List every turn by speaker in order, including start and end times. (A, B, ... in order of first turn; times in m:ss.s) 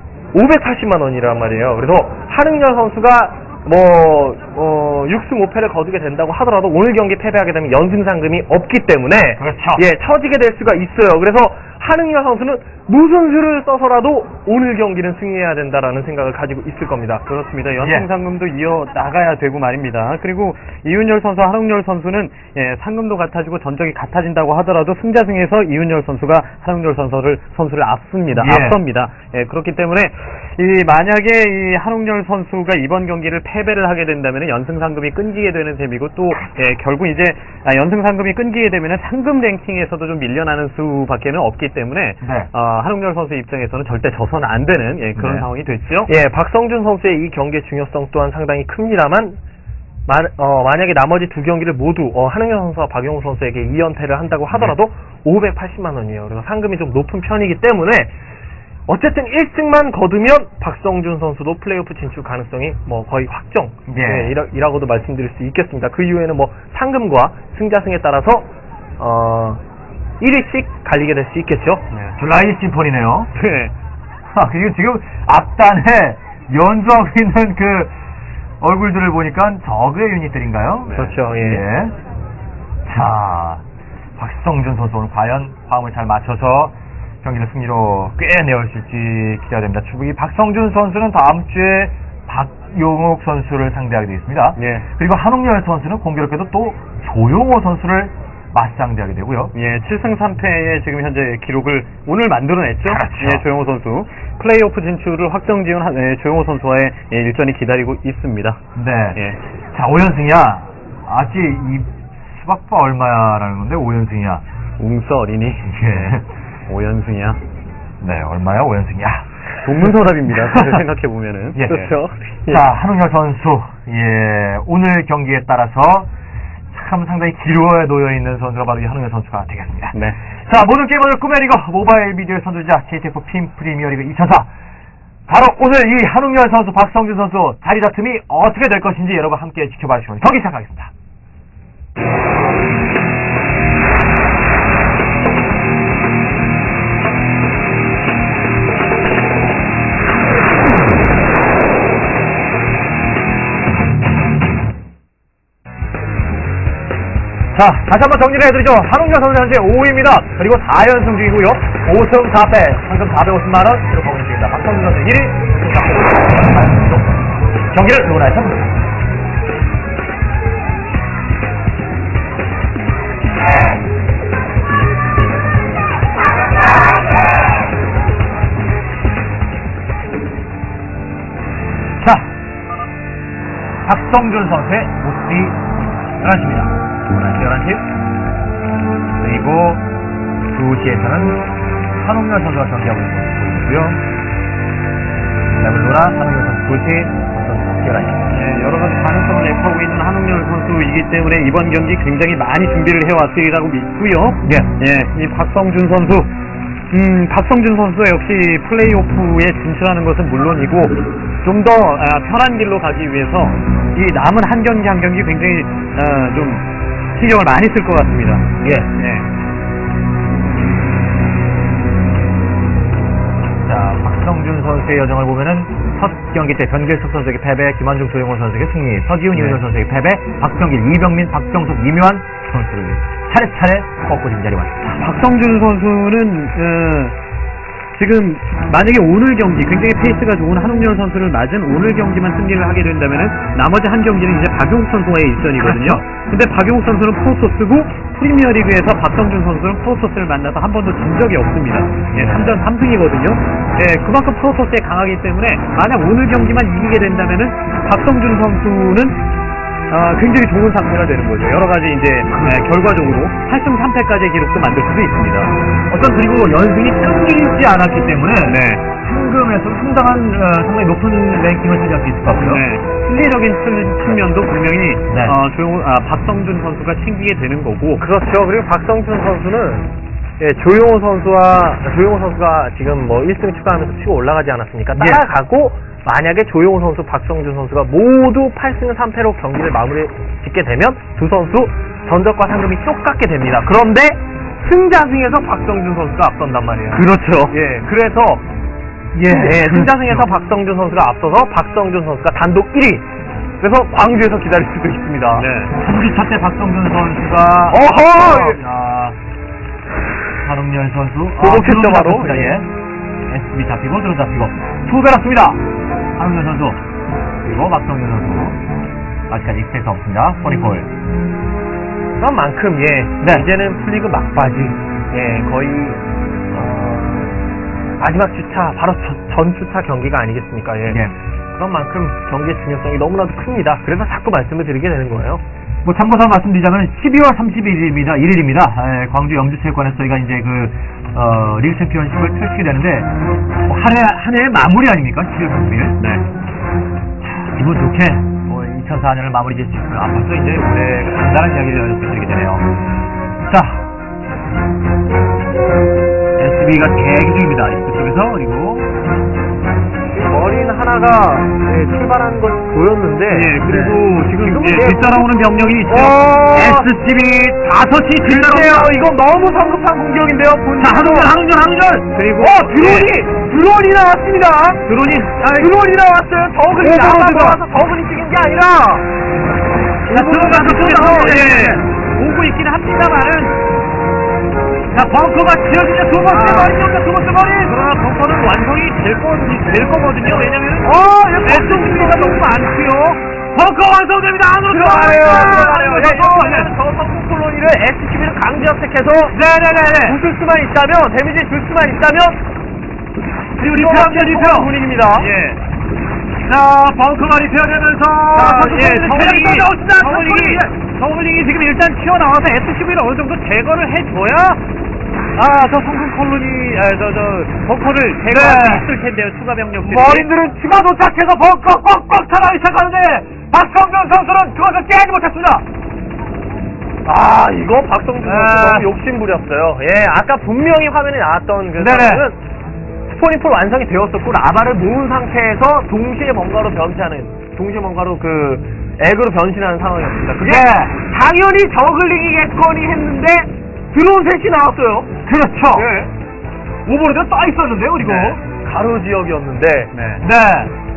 0:00.3-0:17.2 A
0:09.4-0:09.8 B
0:17.3-0:46.1 C
0:17.8-0:18.1 B
0:28.3-0:28.8 B
0:42.2-0:42.5 B
0:45.2-0:45.5 B
0:46.1-0:49.4 A
0:50.1-0:58.1 A
0:58.9-1:08.5 A
1:03.9-1:04.4 B
1:09.0-1:09.6 A
1:10.2-1:11.8 A
1:12.2-1:13.3 B
1:13.4-1:13.7 C
1:14.3-1:17.9 B
1:18.6-1:22.0 B
1:21.0-1:21.6 A
1:22.8-1:23.6 B
1:24.2-1:39.5 B
1:34.6-1:34.9 C
1:39.5-1:48.6 C
1:42.8-1:43.5 B
1:48.8-1:49.2 B
1:49.7-1:54.4 B
1:54.8-1:57.4 C
1:55.7-1:56.2 B
1:58.0-1:59.2 B
1:59.6-2:02.6 C
2:01.6-2:01.9 B
2:01.8-2:02.1 A
2:02.5-2:06.1 B
2:06.7-2:10.0 B
2:10.5-2:14.5 B
2:15.3-2:20.9 B
2:37.5-2:48.8 B
2:40.5-2:41.1 C
3:02.0-3:02.3 B
3:03.8-3:07.8 B
3:09.2-3:09.8 B
3:10.5-3:11.5 B
3:12.0-3:14.0 B
3:15.6-3:18.4 B
3:18.3-3:26.3 C
3:26.9-3:39.3 C
3:38.6-3:38.9 B
3:43.6-3:55.1 B
3:49.4-3:49.6 C
3:55.0-3:57.2 C
3:57.9-4:19.2 C
4:05.6-4:06.0 B
4:12.1-4:12.6 B
4:19.9-4:25.5 C
4:22.3-4:22.7 B
4:25.9-4:32.6 B
4:28.4-4:28.8 C
4:32.4-4:38.0 C
4:35.1-4:35.4 B
4:38.0-4:58.4 A
4:56.9-4:57.5 C
4:59.1-5:00.3 B
4:59.2-5:03.1 A
5:03.6-5:05.5 A
5:05.4-5:05.8 C
5:05.7-5:09.2 B
5:07.7-5:08.6 A
5:10.4-5:12.7 B
5:11.4-5:12.5 A
5:13.3-5:15.6 B
5:16.2-5:16.8 B
5:17.4-5:18.6 B
5:19.3-5:20.9 B
5:22.2-5:26.0 A
5:23.2-5:23.5 B
5:26.5-5:27.4 A
5:28.0-5:35.4 A
5:30.9-5:31.2 B
5:35.8-5:43.1 B
5:43.7-5:46.0 B
5:47.2-5:52.7 B
5:53.5-5:53.9 B
5:56.4-5:58.9 B
6:00.1-6:03.7 A
6:03.3-6:06.3 C
6:03.6-6:04.0 B
6:04.3-6:05.3 A
6:05.9-6:06.9 A
6:06.3-6:08.9 B
6:08.2-6:11.3 A
6:10.8-6:13.1 C
6:10.8-6:12.0 B
6:12.4-6:14.8 A
6:14.9-6:15.7 C
6:15.5-6:19.1 A
6:16.8-6:17.6 C
6:17.3-6:17.5 B
6:20.1-6:23.6 C
6:20.1-6:21.8 A
6:20.2-6:21.0 B
6:24.9-6:27.8 B
6:26.1-6:26.8 C
6:27.6-6:33.2 C
6:30.8-6:32.4 A
6:33.6-6:36.7 B
6:33.8-6:36.2 C
6:34.7-6:39.4 A
6:39.3-6:40.2 B
6:40.0-6:42.4 A
6:43.6-6:44.8 B
6:43.6-6:45.3 A
6:45.2-6:45.6 C
6:46.4-6:50.7 B
6:48.4-6:54.6 C
6:49.0-6:50.6 A
6:55.4-7:00.3 C
6:58.3-6:58.9 B
6:59.8-7:05.6 B
7:07.0-7:12.4 A
7:08.2-7:08.9 B
7:11.8-7:12.3 B
7:13.1-7:25.1 A
7:20.4-7:21.0 B
7:25.2-7:25.9 B
7:25.7-7:26.1 A
7:26.9-7:28.4 B
7:28.0-7:28.4 C
7:28.2-7:29.9 A
7:29.9-7:30.2 C
7:30.2-7:30.7 B